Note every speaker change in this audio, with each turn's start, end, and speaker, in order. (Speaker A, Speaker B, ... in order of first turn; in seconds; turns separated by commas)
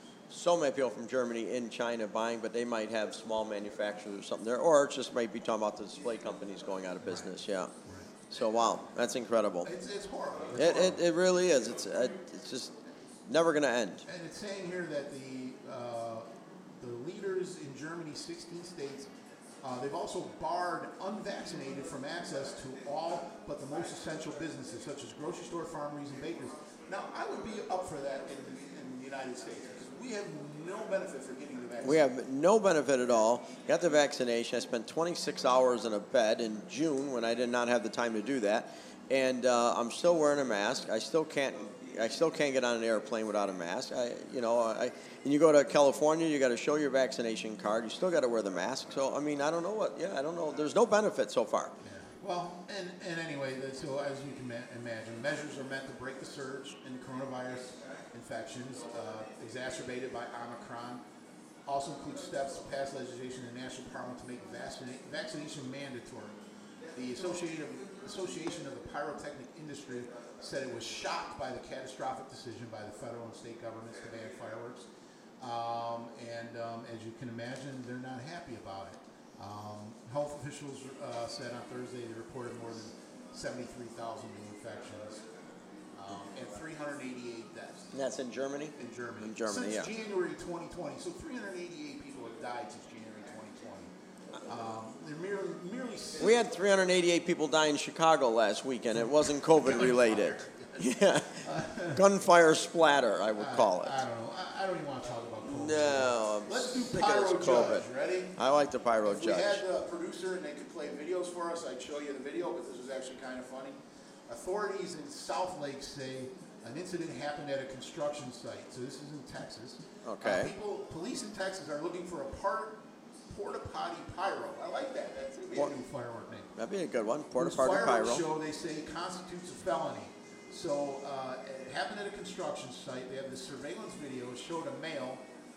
Speaker A: 0.3-7.7, Speaker B: 7.0-7.3, Speaker B: 7.8-8.1, Speaker A: 8.3-9.7, Speaker B: 9.6-11.0, Speaker A: 10.5-14.0, Speaker B: 14.1-19.1, Speaker B: 19.6-32.1, Speaker A: 31.8-51.8, Speaker B: 51.8-61.0, Speaker B: 61.6-66.4, Speaker B: 66.9-74.9, Speaker B: 75.4-85.2, Speaker B: 85.9-87.9, Speaker A: 87.9-89.9, Speaker B: 88.8-93.9, Speaker B: 94.4-96.4, Speaker A: 96.2-104.0, Speaker B: 99.0-102.0, Speaker B: 103.3-108.4, Speaker A: 105.4-109.6, Speaker B: 109.0-126.5, Speaker A: 120.0-120.5, Speaker A: 126.6-128.2, Speaker B: 127.3-135.2